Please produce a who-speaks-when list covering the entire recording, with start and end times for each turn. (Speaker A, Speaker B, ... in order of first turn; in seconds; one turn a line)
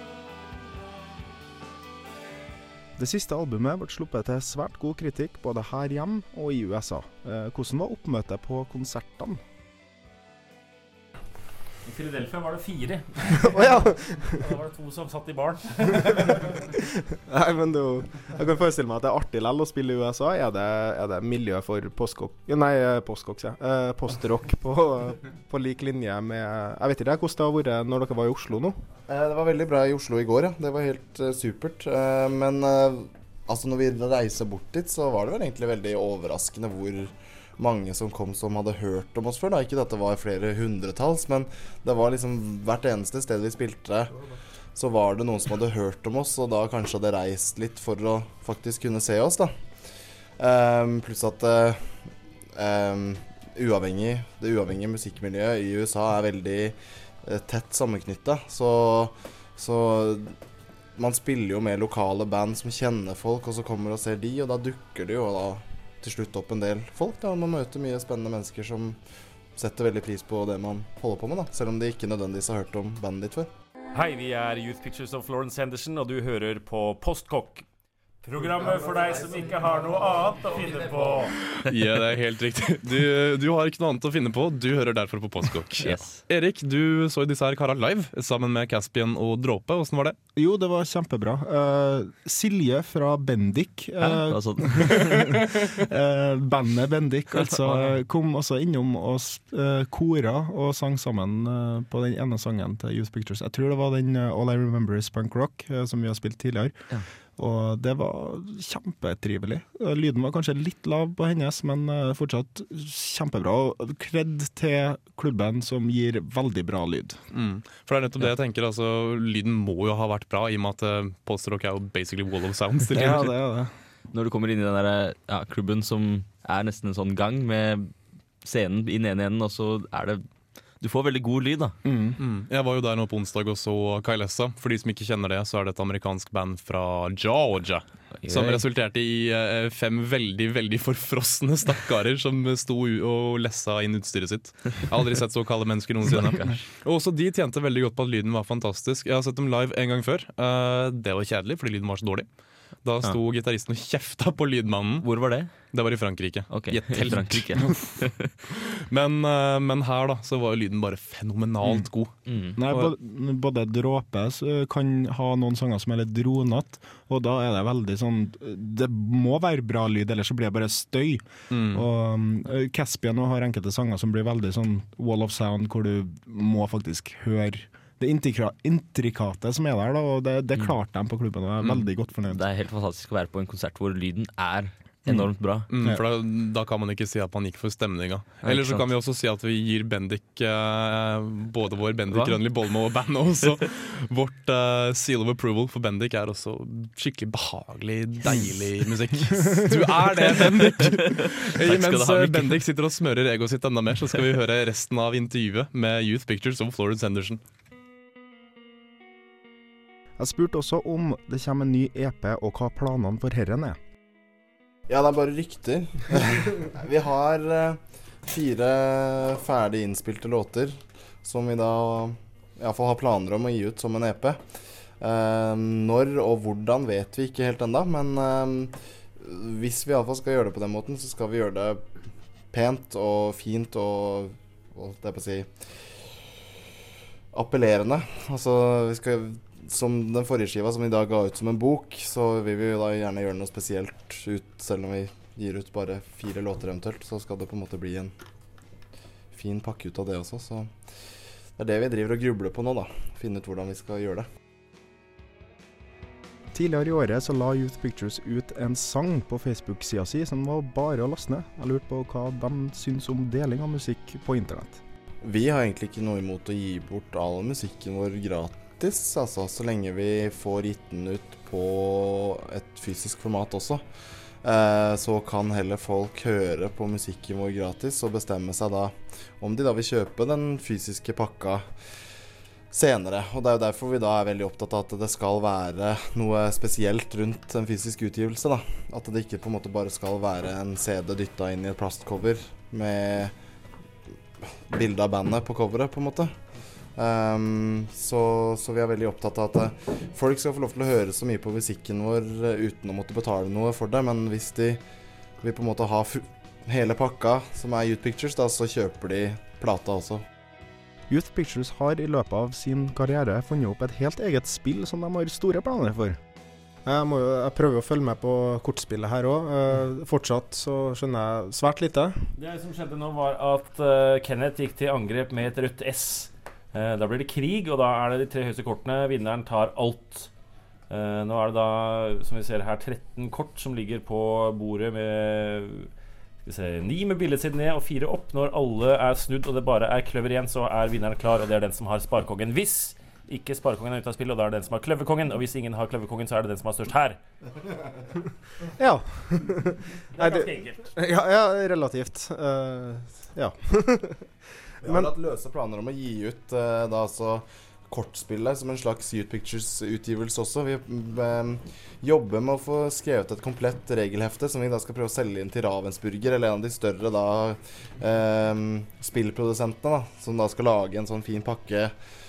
Speaker A: 3.0-9.4
Speaker B: 11.8-16.6
Speaker A: 13.4-14.5
Speaker A: 15.9-28.8
Speaker C: 29.1-44.1
Speaker C: 44.7-49.6
Speaker C: 50.4-60.3
Speaker C: 61.0-69.0
Speaker C: 69.5-73.5
Speaker B: 73.9-77.6
Speaker B: 78.2-81.4
Speaker D: 81.7-90.2
Speaker E: 85.8-86.2
Speaker A: 90.3-106.7
Speaker E: 94.0-95.4
Speaker E: 97.5-97.9
Speaker A: 107.4-117.2
Speaker D: 117.3-123.3
Speaker A: 122.9-123.7
Speaker E: 124.1-127.9
Speaker E: 128.4-130.2
Speaker E: 130.8-131.8
Speaker A: 131.8-132.2
Speaker D: 132.2-152.2
Speaker E: 138.2-138.6
Speaker E: 146.1-146.6
Speaker D: 152.8-155.1
Speaker E: 155.0-155.5
Speaker D: 155.7-157.9
Speaker E: 156.5-158.3
Speaker D: 158.5-162.1
Speaker E: 162.3-162.6
Speaker A: 162.6-182.4
Speaker D: 162.7-162.9
Speaker D: 171.5-171.8
Speaker E: 181.6-185.7
Speaker D: 185.7-207.4
Speaker E: 188.4-188.8
Speaker E: 192.1-192.4
Speaker E: 200.8-202.6
Speaker A: 210.2-213.8
Speaker C: 214.9-224.4
Speaker C: 225.0-231.8
Speaker C: 232.5-235.5
Speaker C: 237.3-248.1
Speaker C: 249.3-250.7
Speaker C: 251.6-254.3
Speaker A: 256.5-264.8
Speaker C: 265.2-273.8
Speaker C: 274.4-281.6
Speaker C: 282.7-293.3
Speaker C: 294.7-296.3
Speaker C: 296.9-304.8
Speaker C: 305.4-310.2
Speaker A: 311.1-316.2
Speaker A: 316.8-322.3
Speaker B: 322.3-330.3
Speaker B: 330.9-335.9
Speaker B: 336.4-347.2
Speaker A: 348.8-354.2
Speaker B: 350.1-350.9
Speaker C: 354.8-371.9
Speaker A: 354.9-355.1